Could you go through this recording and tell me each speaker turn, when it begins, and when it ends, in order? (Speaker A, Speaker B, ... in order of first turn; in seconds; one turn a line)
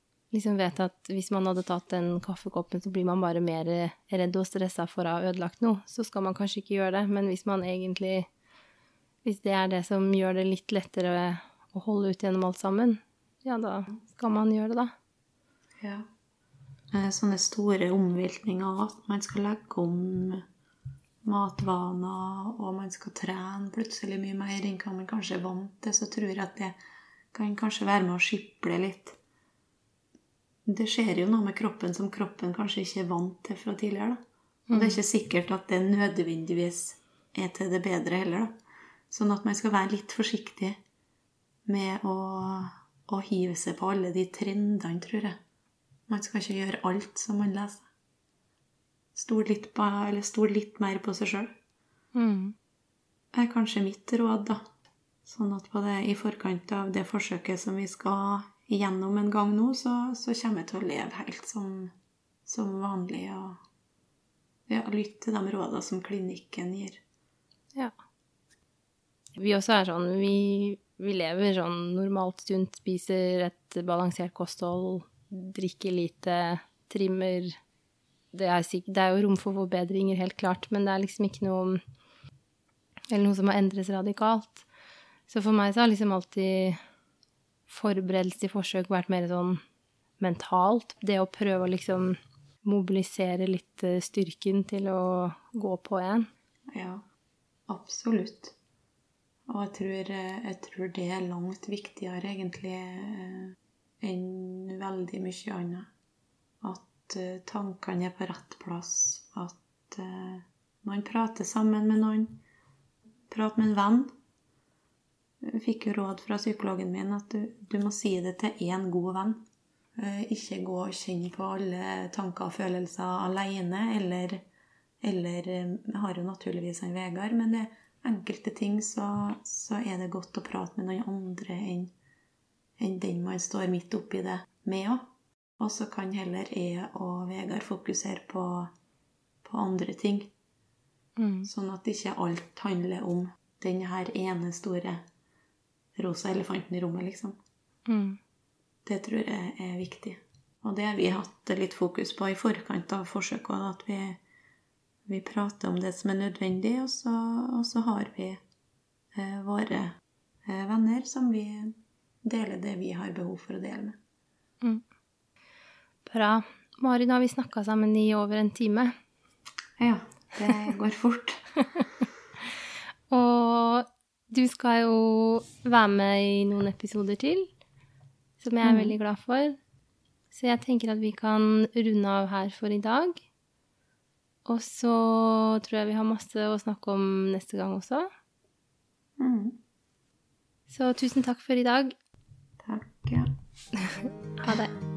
Speaker A: 0.3-8.3
Speaker A: 9.2-14.9
Speaker B: 15.8-16.1
Speaker B: 16.9-20.4
Speaker B: 21.2-26.7
Speaker B: 27.3-29.2
Speaker B: 30.6-34.2
Speaker A: 34.7-35.0
Speaker B: 34.7-38.5
Speaker B: 39.1-40.8
Speaker B: 41.6-45.4
Speaker B: 46.1-47.9
Speaker B: 49.1-51.5
Speaker A: 52.1-52.5
Speaker B: 53.3-54.6
Speaker B: 55.2-61.9
Speaker B: 62.5-63.6
Speaker B: 64.7-67.0
Speaker A: 69.3-77.6
Speaker A: 78.3-81.8
Speaker A: 83.1-84.6
Speaker A: 85.3-86.8
Speaker A: 87.7-89.6
Speaker A: 90.2-96.3
Speaker B: 96.7-97.0
Speaker B: 97.7-98.5
Speaker B: 99.5-105.9
Speaker B: 106.6-112.4
Speaker B: 113.3-114.1
Speaker B: 115.4-119.4
Speaker B: 120.0-124.4
Speaker B: 125.0-131.9
Speaker B: 132.8-135.0
Speaker B: 135.6-138.7
Speaker B: 139.4-140.3
Speaker A: 141.2-141.5
Speaker B: 141.4-145.0
Speaker B: 145.9-147.3
Speaker A: 147.9-148.2
Speaker B: 148.8-154.2
Speaker B: 155.1-158.4
Speaker B: 159.1-164.0
Speaker A: 166.1-168.9
Speaker B: 169.8-171.4
Speaker A: 173.1-177.5
Speaker A: 178.4-179.6
Speaker B: 178.6-178.9
Speaker A: 180.3-183.2
Speaker A: 184.4-188.1
Speaker B: 189.2-189.6
Speaker A: 190.7-191.9
Speaker B: 192.6-193.3
Speaker A: 193.8-194.7